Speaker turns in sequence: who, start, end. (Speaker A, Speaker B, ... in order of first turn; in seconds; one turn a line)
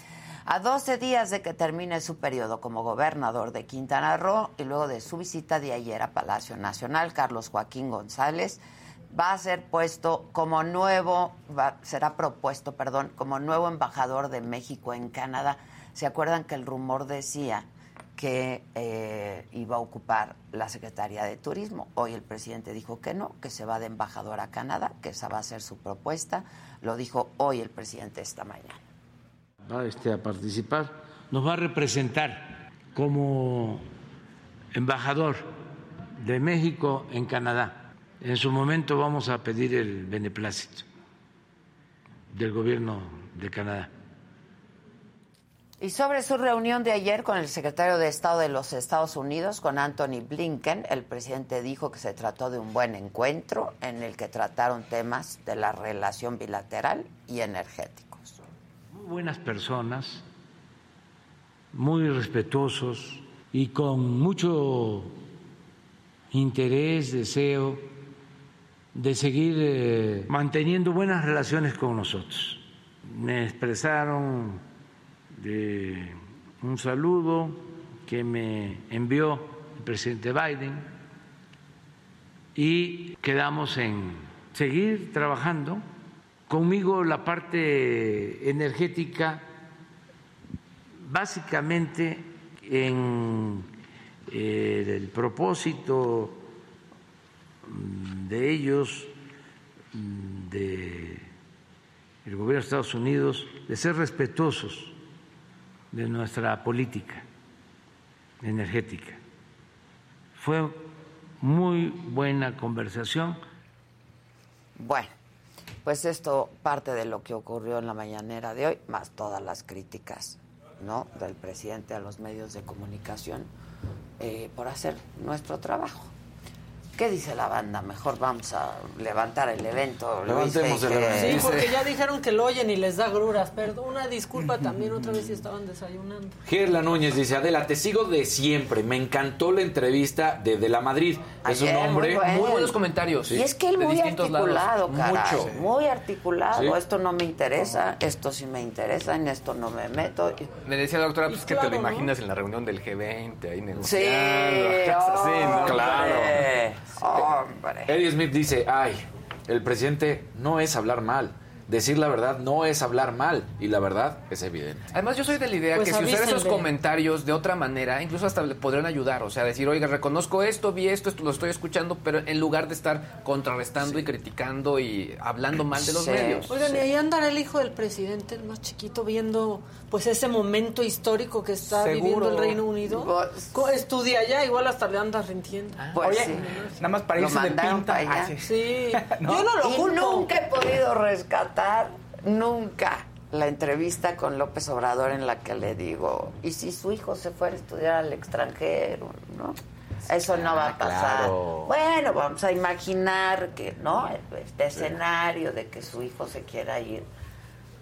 Speaker A: 0.5-8.6
Speaker A: 9.1-28.8
Speaker B: 29.6-33.8
Speaker B: 34.7-35.5
Speaker B: 36.2-40.8
Speaker B: 42.3-43.9
Speaker A: 45.8-58.4
Speaker B: 58.9-60.2
Speaker B: 61.7-65.2
Speaker B: 66.3-67.9
Speaker B: 68.9-74.6
Speaker B: 75.3-80.9
Speaker B: 82.5-85.8
Speaker B: 86.5-89.4
Speaker B: 91.0-93.7
Speaker B: 94.3-96.4
Speaker B: 97.6-99.1
Speaker B: 99.9-101.3
Speaker B: 102.2-105.0
Speaker B: 105.9-107.2
Speaker B: 108.4-109.2
Speaker B: 110.4-113.4
Speaker A: 114.8-115.1
Speaker A: 115.8-123.5
Speaker A: 124.2-126.1
Speaker A: 127.0-131.5
Speaker C: 130.2-131.7
Speaker D: 131.1-136.4
Speaker C: 136.4-142.4
Speaker A: 141.4-142.7
Speaker E: 142.2-145.5
Speaker A: 143.3-150.5
Speaker E: 150.7-156.3
Speaker D: 151.3-152.1
Speaker A: 153.8-157.9
Speaker C: 155.5-156.4
Speaker C: 157.9-164.9
Speaker E: 164.9-176.5
Speaker D: 165.7-166.7
Speaker A: 175.8-176.5
Speaker D: 176.5-186.8
Speaker F: 181.7-182.6
Speaker A: 182.8-183.6
Speaker A: 185.9-186.6
Speaker F: 186.0-189.5
Speaker A: 187.1-188.3
Speaker D: 188.4-190.3
Speaker A: 189.6-207.1
Speaker C: 200.4-201.7